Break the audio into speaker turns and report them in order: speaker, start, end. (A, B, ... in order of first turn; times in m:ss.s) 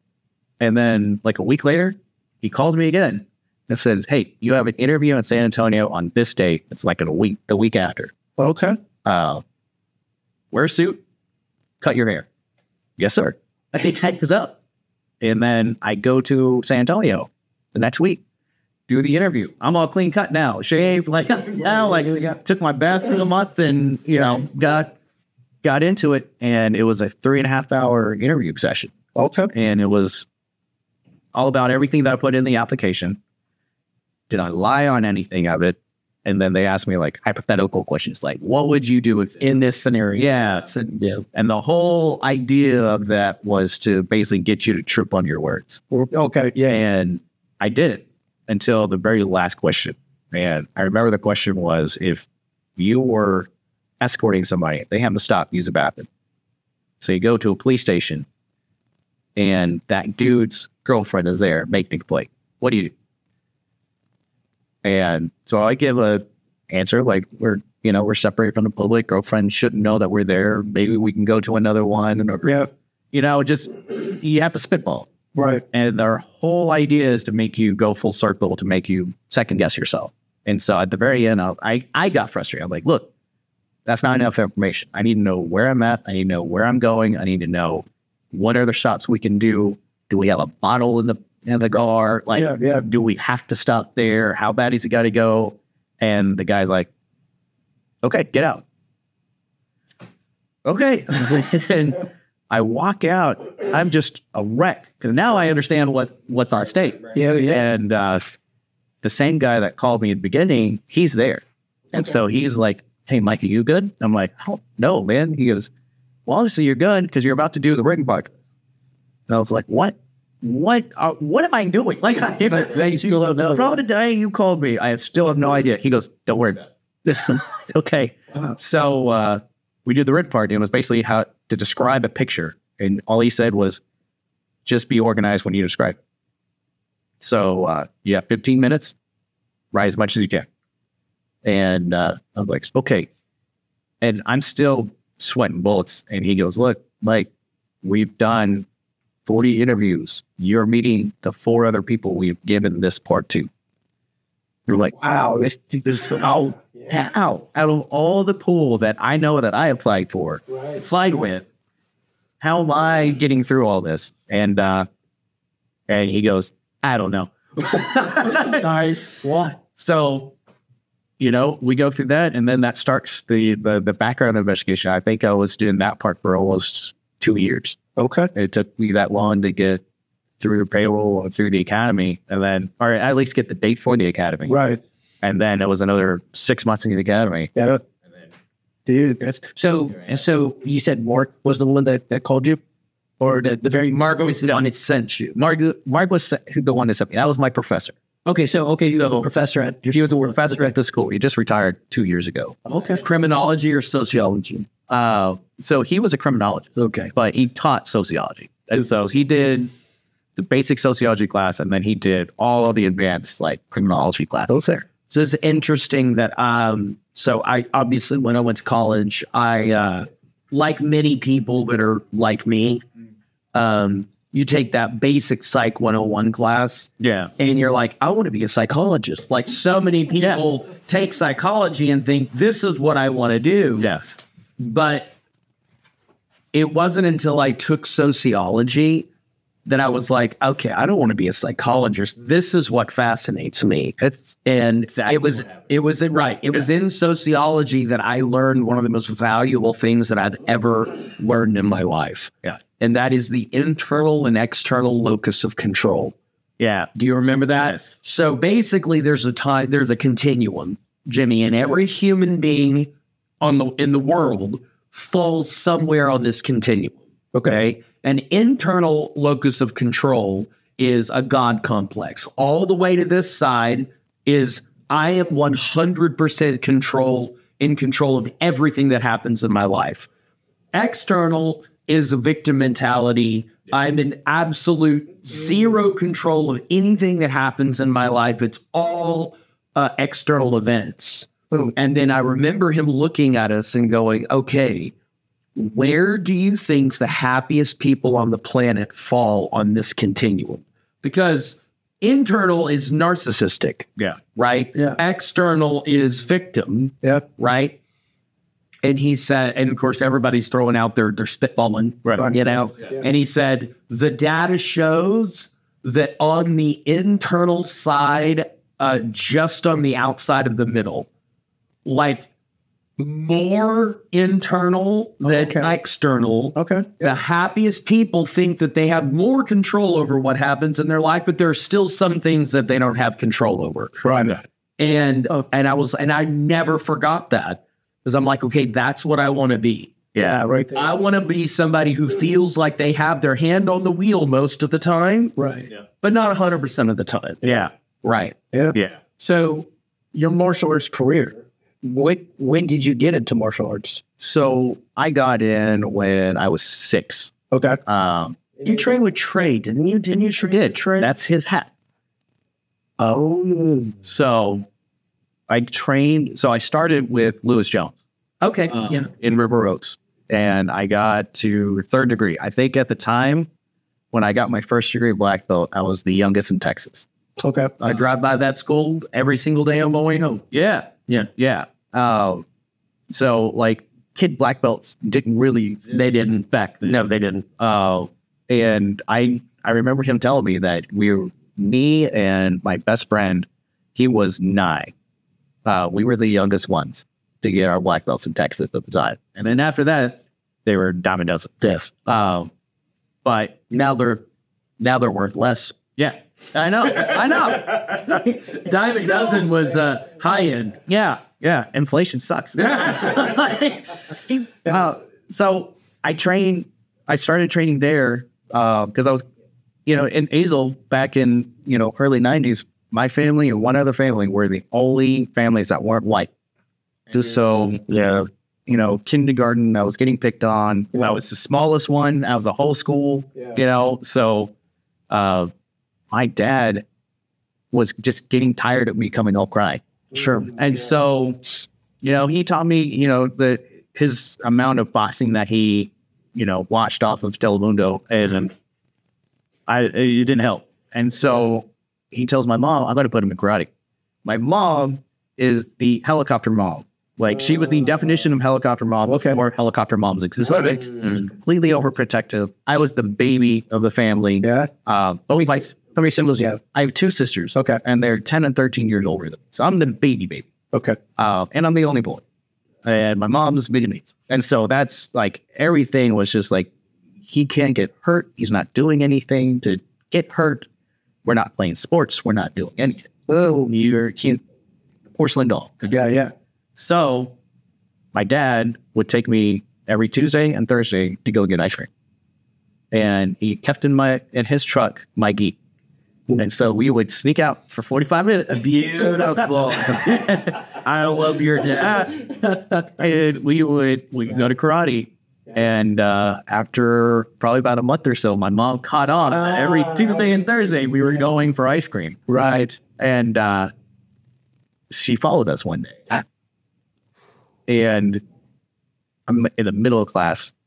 0:00.6-0:08.1 A
0:08.4-0:08.8 B
0:09.0-0:09.4 A
0:10.5-0:11.0 A
0:11.8-0:12.3 A
0:13.0-0:14.6 A
0:15.2-0:18.2 A
0:18.9-0:24.9 A
0:21.6-0:22.4 B
0:25.6-0:28.9 A
0:29.1-0:29.5 B
0:29.5-0:30.3 A
0:31.3-0:33.2 A
0:34.3-0:39.3 A
0:39.3-0:40.3 C
0:40.2-0:46.0 A
0:45.9-0:46.8 B
0:46.6-0:53.5 A
0:54.0-0:56.1 A
0:57.0-0:58.2 A
0:59.4-1:02.9 A
1:04.8-1:12.6 A
1:12.4-1:12.7 B
1:13.1-1:15.1 A
1:15.3-1:15.6 B
1:15.7-1:23.1 A
1:23.8-1:36.9 A
1:32.3-1:32.8 B
1:38.0-1:38.6 A
1:40.6-1:48.3 A
1:47.1-1:47.6 B
1:49.0-1:55.7 A
1:56.2-1:58.3 A
1:59.3-2:13.8 A
2:02.5-2:03.8 B
2:14.6-2:16.0 A
2:17.2-2:19.0 A
2:19.7-2:20.5 A
2:21.4-2:23.1 A
2:24.0-2:27.3 A
2:27.8-2:28.6 A
2:29.2-2:33.5 A
2:34.7-2:34.9 A
2:34.9-2:36.8 B
2:36.9-2:41.4 A
2:42.4-2:44.9 A
2:45.9-2:48.6 A
2:48.5-2:49.5 C
2:49.6-2:50.3 A
2:51.2-2:57.8 A
2:58.0-2:58.3 B
2:58.3-2:59.8 A
3:00.4-3:04.6 A
3:04.5-3:04.8 B
3:05.2-3:07.5 A
3:07.5-3:07.8 B
3:08.9-3:12.6 B
3:09.6-3:10.2 C
3:13.2-3:14.1 B
3:13.9-3:15.4 C
3:15.3-3:18.0 A
3:18.2-3:19.3 C
3:19.0-3:20.1 B
3:19.9-3:22.6 A
3:22.6-3:23.0 B
3:22.9-3:24.7 C
3:24.9-3:29.7 A
3:30.4-3:34.8 A
3:35.1-3:42.8 C
3:43.5-3:53.9 C
3:47.0-3:47.3 A
3:53.8-3:54.2 A
3:54.6-3:55.1 C
3:56.5-3:59.1 C
3:59.6-4:16.1 C
4:04.9-4:05.4 A
4:16.6-4:16.9 A
4:16.9-4:22.9 C
4:23.4-4:40.1 C
4:40.7-4:54.9 C
4:55.6-5:07.7 C
5:08.8-5:21.1 C
5:21.8-5:22.3 C
5:23.0-5:34.0 C
5:25.2-5:25.7 B
5:26.5-5:27.1 B
5:34.0-5:34.4 B
5:34.8-5:39.9 C
5:40.2-5:40.9 B
5:40.7-5:45.3 C
5:45.4-5:45.7 B
5:46.0-5:47.6 C
5:47.4-5:48.9 A
5:48.5-5:54.0 B
5:54.2-5:57.3 A
5:57.5-5:57.8 B
5:57.8-5:58.4 A
5:58.6-6:01.1 C
6:01.0-6:01.7 A
6:03.1-6:04.6 A
6:05.5-6:07.9 A
6:08.4-6:09.1 C
6:08.7-6:13.5 A
6:14.1-6:17.1 A
6:17.4-6:17.7 B
6:17.8-6:20.5 C
6:20.5-6:22.4 A
6:23.1-6:26.1 A
6:25.9-6:27.4 C
6:27.6-6:34.9 A
6:35.6-6:42.5 A
6:43.2-6:44.2 A
6:44.9-6:48.1 A
6:46.9-6:50.9 C
6:50.9-6:59.2 A
6:59.8-7:06.3 A
7:07.1-7:14.5 A
7:15.1-7:15.5 A
7:16.1-7:16.8 A
7:17.7-7:28.5 A
7:29.7-7:33.7 A
7:34.2-7:50.5 A
7:39.1-7:39.4 B
7:40.5-7:40.8 B
7:44.4-7:44.7 B
7:50.7-7:51.0 B
7:51.2-7:52.2 A
7:52.8-7:56.7 A
7:57.3-8:00.7 A
8:01.2-8:04.4 A
8:05.1-8:05.9 A
8:05.9-8:06.3 B
8:06.8-8:07.3 A
8:08.1-8:11.9 A
8:12.9-8:15.6 A
8:16.3-8:20.8 A
8:18.5-8:22.4 C
8:21.8-8:22.1 A
8:22.7-8:32.2 A
8:32.3-8:32.8 B
8:33.0-8:33.7 A
8:34.9-8:36.2 A
8:37.7-8:38.2 A
8:39.3-8:40.5 A